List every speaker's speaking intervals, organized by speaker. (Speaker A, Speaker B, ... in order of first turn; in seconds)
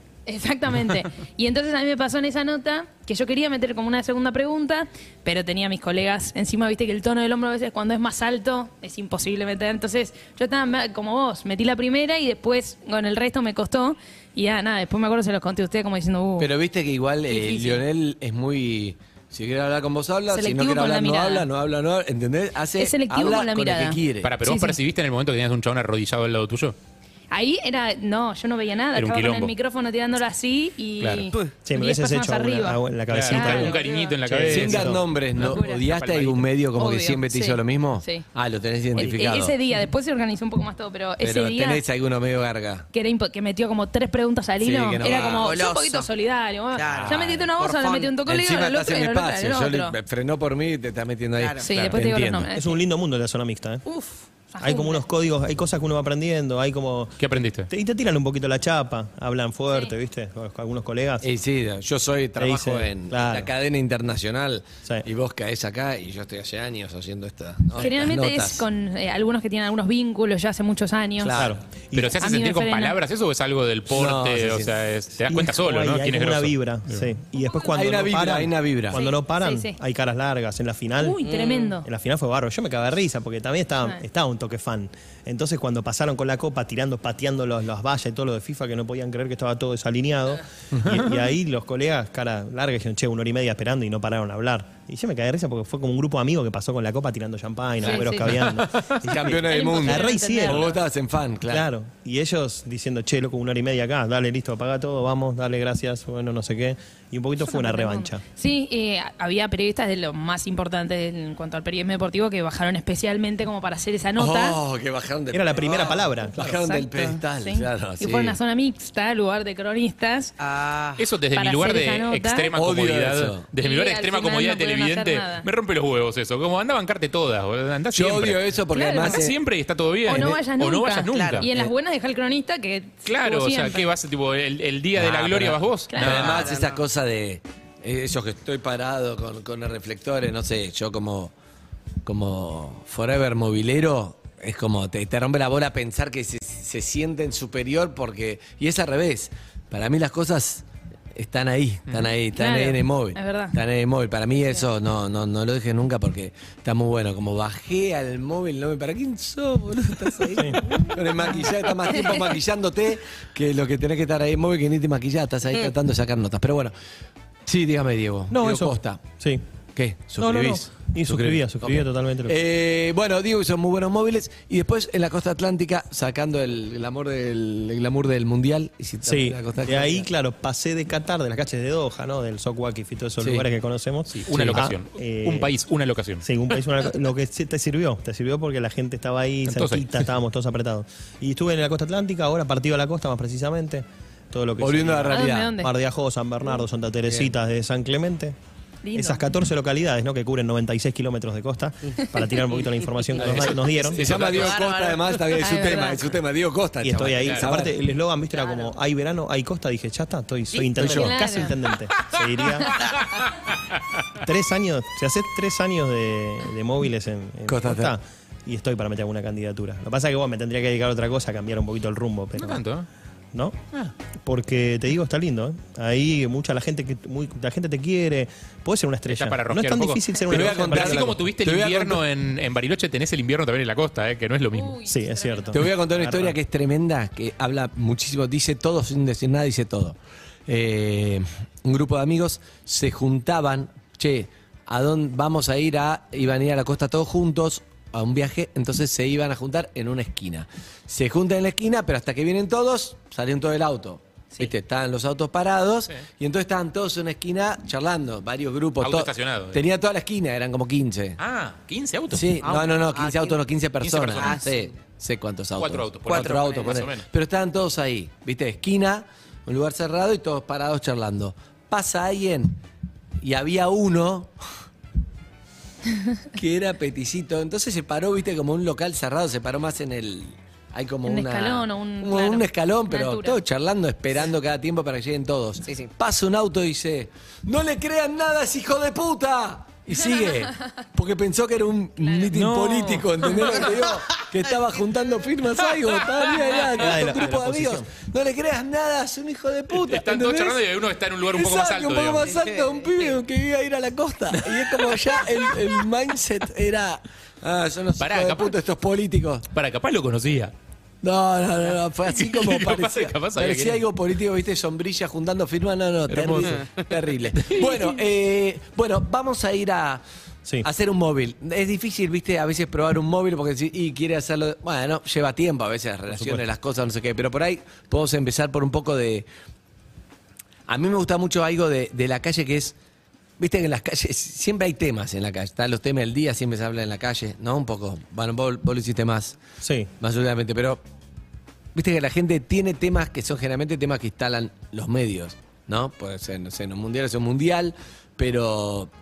Speaker A: 0.3-16.5, 17.3-17.8, 20.3-21.5, 22.8-24.8, 27.3-34.2, 35.4-35.9, 36.8-38.2, 39.0-41.8, 42.9-50.0, 51.6-52.8, 53.9-55.0, 67.8-71.3, 72.2-73.0, 78.9-79.8, 81.0-81.9, 97.8-98.3, 99.3-100.8, 107.4-114.6, 116.4-120.3, 121.3-122.5, 123.6-125.5, 128.7-129.3, 130.1-133.9, 135.9-136.3, 152.4-153.6, 161.9-162.2, 195.1-195.7, 198.8-199.2, 204.3-206.1, 210.8-211.6, 234.5-235.6, 281.1-283.4
Speaker B: 16.4-24.3, 34.3-39.6, 41.2-42.9, 44.6-45.6, 46.9-47.5, 48.3-52.5, 61.2-68.7, 71.2-71.6, 73.9-74.8, 77.7-79.0, 97.8-101.7, 114.2-118.4, 122.5-123.5, 127.9-129.4, 134.9-141.3, 142.1-150.6, 151.2-166.7, 167.5-169.0, 169.8-180.1, 194.6-195.5, 197.1-197.3, 203.2-207.7, 210.8-211.2, 217.5-217.9, 230.3-232.0, 235.5-240.0, 240.5-261.2, 262.1-272.6, 273.2-274.3, 276.4-300.6, 301.3-309.5, 311.0-320.0, 320.6-329.3, 330.7-332.8, 333.4-339.4, 340.0-340.8, 341.8-348.9
Speaker C: 24.2-26.8, 28.9-29.5, 31.0-31.3, 33.1-36.5, 57.2-57.7, 71.9-77.1, 90.9-91.1, 98.7-99.0, 121.0-131.5, 133.1-136.5, 184.1-186.3, 189.5-189.9, 203.9-204.6, 212.8-213.2, 222.4-222.9, 229.1-234.8, 258.8-259.6, 261.2-262.5, 263.8-264.4, 265.6-267.1, 292.3-293.7, 299.7-302.3, 304.4-305.0, 308.0-308.6, 309.5-310.5, 312.1-313.8, 316.1-316.6, 317.4-317.7
Speaker D: 31.6-33.7, 34.3-35.0, 52.5-53.8, 54.6-57.2, 57.7-61.3, 62.4-63.5, 71.3-72.2, 75.3-81.2, 81.8-100.7, 101.5-108.2, 115.3-116.7, 160.4-160.6, 168.3-169.4, 170.2-172.4, 179.1-185.5, 186.2-198.4, 198.9-204.1, 206.8-212.9, 214.2-222.6, 223.3-223.6, 224.2-231.3, 234.9-236.4, 296.7-297.9, 326.1-326.5, 339.6-339.9
Speaker E: 39.0-39.3, 45.0-46.1, 46.7-48.2, 51.4-51.6, 81.2-81.8, 120.4-121.0, 131.1-131.5, 136.0-136.8, 160.2-160.9, 204.3-205.2, 262.4-263.4, 264.2-264.5, 266.1-266.9, 302.2-303.2